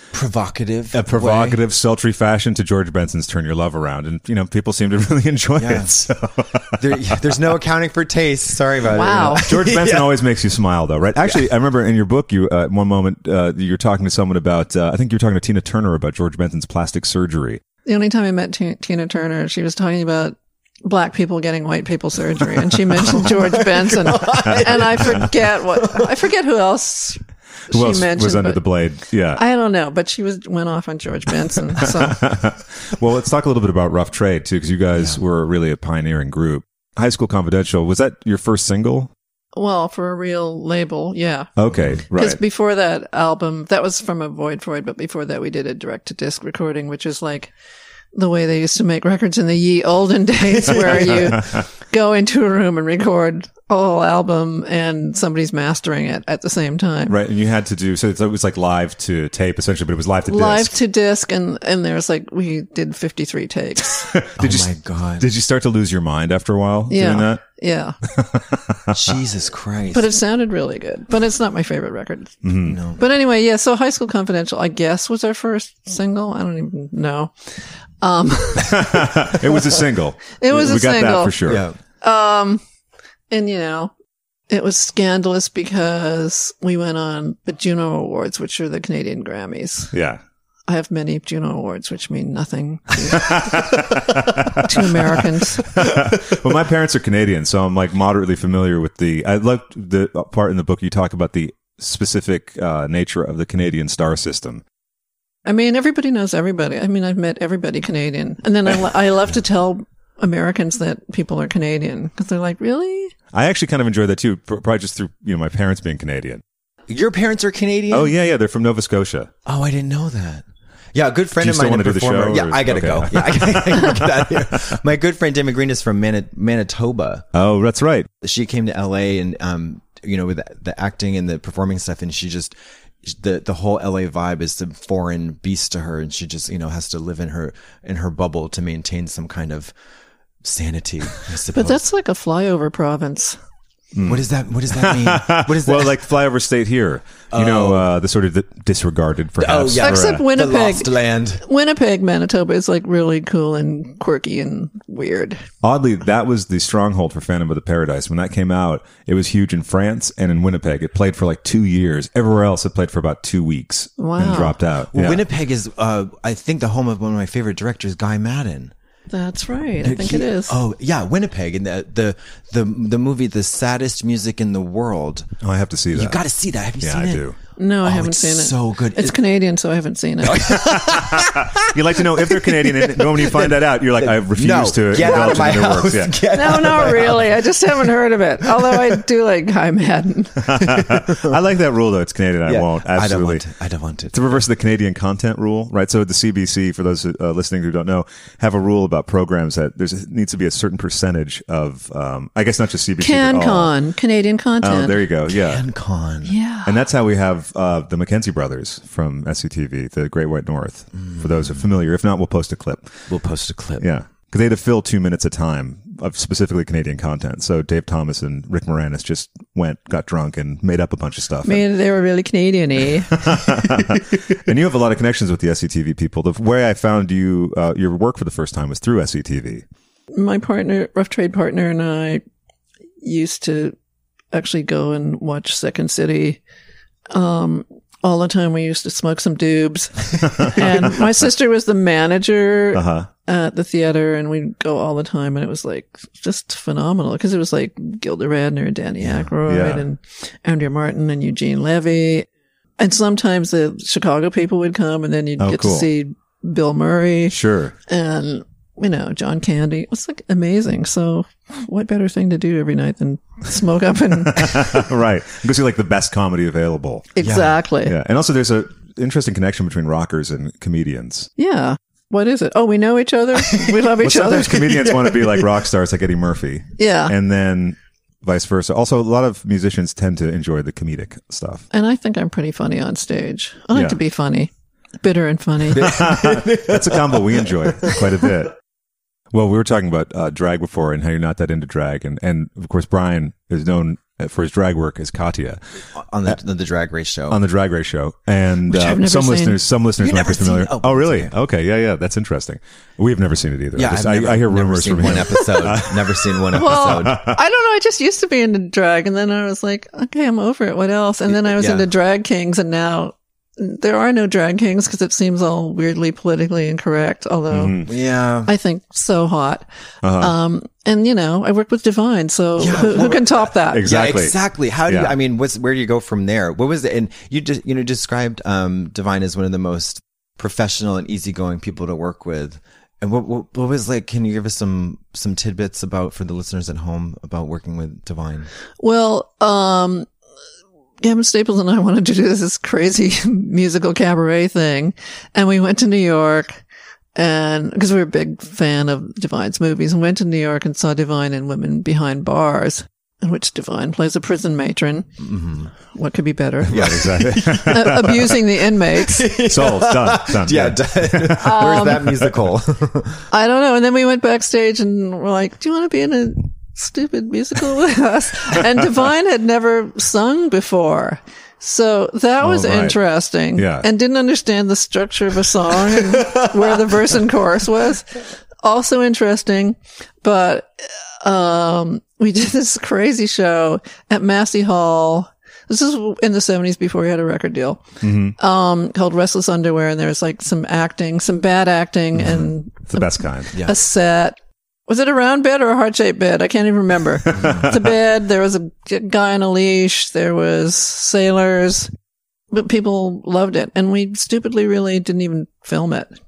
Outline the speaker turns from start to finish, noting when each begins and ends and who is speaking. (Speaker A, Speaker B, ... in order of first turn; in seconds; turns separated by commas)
Speaker A: 0.1-1.6, Speaker B: 0.9-7.2, Speaker A: 5.6-6.1, Speaker A: 6.7-10.2, Speaker C: 8.9-9.5, Speaker B: 9.3-17.6, Speaker A: 11.2-11.4, Speaker C: 17.8-28.6, Speaker A: 23.0-26.1, Speaker B: 24.4-25.1, Speaker B: 27.7-29.4, Speaker C: 29.4-32.2, Speaker B: 32.0-39.1, Speaker C: 39.5-41.5, Speaker B: 41.6-42.4, Speaker C: 42.1-47.5, Speaker C: 48.1-57.1, Speaker A: 50.5-51.4, Speaker B: 50.7-51.6, Speaker B: 57.1-60.7, Speaker C: 60.3-64.1, Speaker B: 64.1-67.4, Speaker A: 64.4-65.3, Speaker C: 66.9-67.9, Speaker B: 68.2-69.1, Speaker A: 68.9-70.1, Speaker C: 69.9-72.4, Speaker B: 72.4-72.8, Speaker A: 72.6-73.0, Speaker C: 73.0-79.1, Speaker B: 78.6-81.6, Speaker C: 80.4-81.3, Speaker A: 81.4-81.8, Speaker C: 82.0-82.6, Speaker C: 83.3-83.9, Speaker C: 84.5-89.9, Speaker B: 89.9-90.2, Speaker C: 90.7-93.4, Speaker B: 93.1-104.6, Speaker C: 94.5-95.7, Speaker C: 105.4-113.1, Speaker B: 113.3-116.4, Speaker A: 116.9-118.1, Speaker B: 117.9-119.3, Speaker A: 119.5-127.3, Speaker B: 121.4-124.7, Speaker B: 127.3-128.1, Speaker A: 128.2-139.7, Speaker A: 140.4-141.8, Speaker C: 141.5-143.4, Speaker B: 143.9-150.2, Speaker A: 144.0-146.0, Speaker A: 147.3-147.9, Speaker A: 149.4-151.4, Speaker C: 149.8-155.4, Speaker B: 155.6-165.2, Speaker C: 164.0-164.6, Speaker A: 164.9-168.7, Speaker C: 169.1-170.6, Speaker A: 169.8-175.3, Speaker B: 175.4-176.2, Speaker A: 175.9-177.2, Speaker B: 176.8-177.3, Speaker C: 177.6-180.6, Speaker A: 177.8-179.2, Speaker A: 180.2-187.5, Speaker B: 180.5-186.9, Speaker C: 186.3-190.5, Speaker A: 188.5-189.0, Speaker B: 190.5-193.4, Speaker A: 190.5-191.4, Speaker A: 192.4-194.4, Speaker B: 194.1-203.7, Speaker C: 203.0-205.0, Speaker B: 204.6-205.6, Speaker A: 205.3-206.3, Speaker C: 206.2-206.8, Speaker B: 206.6-212.9, Speaker A: 211.0-211.5, Speaker A: 213.1-213.8, Speaker B: 213.8-221.6, Speaker C: 221.4-223.2, Speaker B: 223.1-229.6, Speaker C: 230.1-232.2, Speaker C: 233.0-233.8, Speaker C: 234.3-236.4, Speaker C: 237.1-252.3, Speaker B: 242.7-243.1, Speaker B: 249.4-249.8, Speaker C: 252.8-257.4, Speaker B: 255.4-255.9, Speaker B: 257.3-257.7, Speaker C: 257.9-264.8, Speaker B: 264.3-267.1, Speaker C: 267.1-267.9, Speaker A: 267.2-267.6, Speaker B: 267.8-271.3, Speaker C: 271.4-274.6, Speaker B: 274.0-281.6, Speaker A: 274.5-275.6, Speaker C: 276.8-277.1, Speaker C: 281.7-286.0, Speaker B: 283.7-284.0, Speaker A: 285.7-288.3, Speaker B: 285.8-288.5, Speaker B: 289.3-295.6, Speaker A: 295.9-297.4, Speaker B: 297.3-307.3, Speaker C: 298.7-299.6, Speaker A: 300.0-301.3, Speaker A: 303.7-307.2, Speaker C: 306.5-317.8, Speaker A: 311.3-311.9, Speaker B: 317.5-317.9, Speaker A: 317.9-318.5, Speaker C: 318.4-319.6, Speaker B: 320.0-320.3, Speaker C: 320.2-323.8, Speaker A: 322.6-338.5, Speaker B: 323.7-324.4, Speaker B: 324.9-325.1, Speaker C: 338.8-340.1, Speaker C: 341.0-346.6, Speaker C: 347.1-355.1, Speaker A: 355.2-355.7, Speaker C: 355.9-356.9, Speaker B: 356.7-358.2, Speaker A: 356.7-363.2, Speaker C: 357.4-359.3, Speaker B: 359.4-362.3, Speaker C: 361.4-362.0, Speaker C: 363.3-387.8, Speaker B: 372.4-373.0, Speaker B: 373.6-373.9, Speaker A: 376.0-376.7, Speaker B: 388.0-388.3, Speaker C: 388.4-401.9, Speaker B: 392.2-393.5, Speaker A: 397.4-397.7, Speaker C: 402.5-406.1